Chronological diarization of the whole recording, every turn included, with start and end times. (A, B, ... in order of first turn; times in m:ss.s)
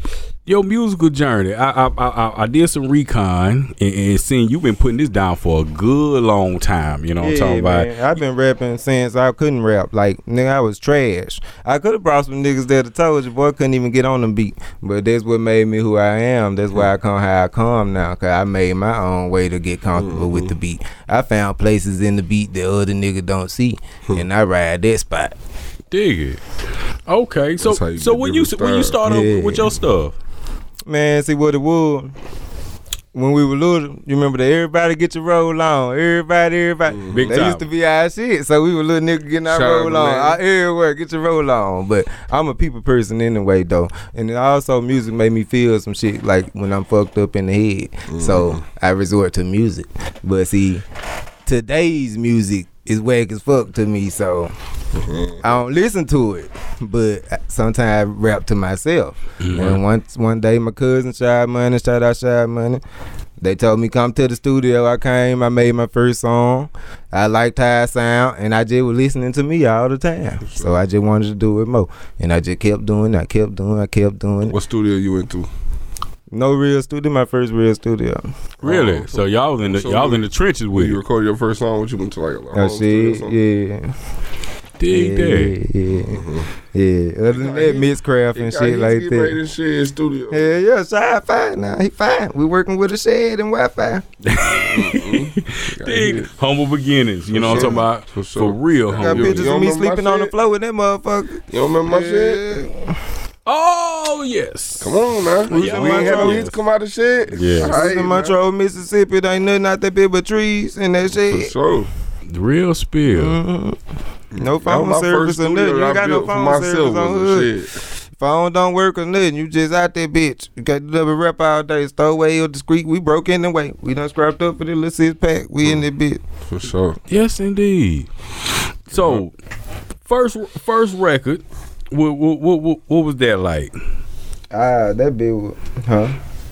0:00.4-0:07.9 A
0:07.2-0:25.3 B
0:19.9-0:20.5 C
0:25.9-0:26.4 A
0:27.1-0:30.1 A
0:27.6-0:29.0 C
0:29.0-0:29.7 B
0:30.9-0:32.1 B
0:33.1-0:50.8 B
0:36.9-0:37.5 C
0:37.1-0:37.6 A
0:39.5-0:40.4 C
0:48.1-0:48.6 C
0:51.4-0:54.5 B
0:54.9-0:55.6 C
0:55.4-1:02.8 B
0:59.4-0:59.8 A
1:03.4-1:14.5 B
1:10.4-1:10.8 C
1:14.5-1:15.5 C
1:16.3-1:18.3 B
1:18.6-1:23.4 C
1:18.6-1:21.0 A
1:22.5-1:23.9 B
1:24.8-1:25.5 A
1:24.9-1:29.4 B
1:26.0-1:26.5 C
1:27.3-1:30.5 C
1:30.3-1:34.0 B
1:34.2-1:39.5 A
1:34.5-1:36.3 C
1:37.3-1:40.3 C
1:37.4-1:37.8 B
1:39.0-1:42.9 B
1:41.5-1:42.5 C
1:43.4-1:45.0 A
1:44.8-1:48.3 C
1:45.5-1:46.4 B
1:45.5-1:46.5 A
1:47.3-1:47.7 A
1:47.6-1:51.5 B
1:51.1-1:51.9 C
1:52.3-1:53.4 A
1:53.1-1:53.8 B
1:54.3-1:57.8 C
1:54.4-1:57.5 B
1:58.2-2:06.2 B
2:06.5-2:07.0 C
2:07.1-2:08.1 A
2:08.9-2:09.3 A
2:08.9-2:09.2 C
2:10.1-2:13.7 A
2:14.5-2:16.2 B